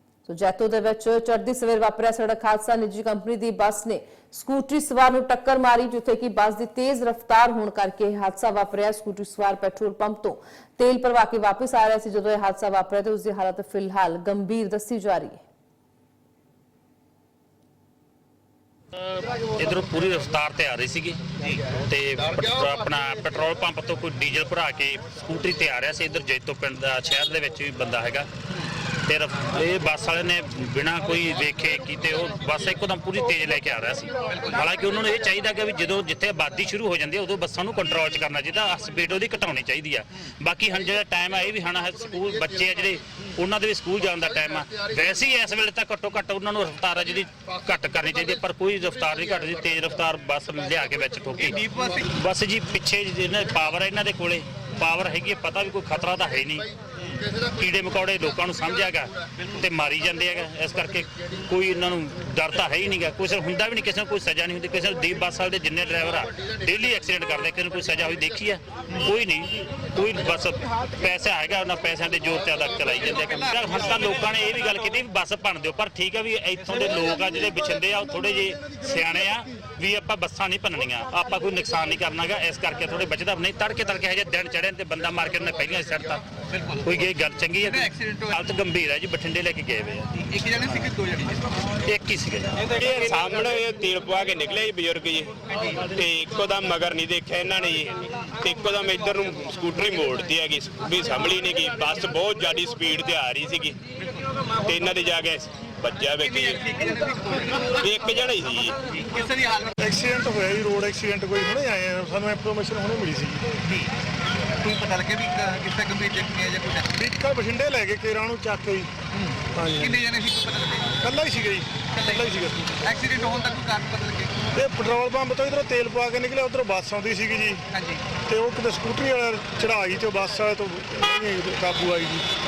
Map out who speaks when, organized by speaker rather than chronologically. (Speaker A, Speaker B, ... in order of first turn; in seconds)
Speaker A: 0.2-15.4
Speaker B: 19.5-21.2, 21.7-28.3, 29.1-56.7, 57.4-86.2, 86.8-90.1, 91.8-92.7
Speaker C: 51.4-52.0, 73.0-74.3, 86.5-86.9, 87.6-88.4, 90.2-91.6, 95.5-95.8, 106.2-107.8, 108.9-109.7, 114.6-116.9, 119.2-121.0, 121.9-124.5, 127.7-128.0
Speaker D: 92.7-103.8, 104.5-106.6, 107.7-108.8
Speaker E: 109.8-113.5, 117.0-118.9, 119.5-120.0, 121.0-122.8, 124.5-127.6, 128.2-132.3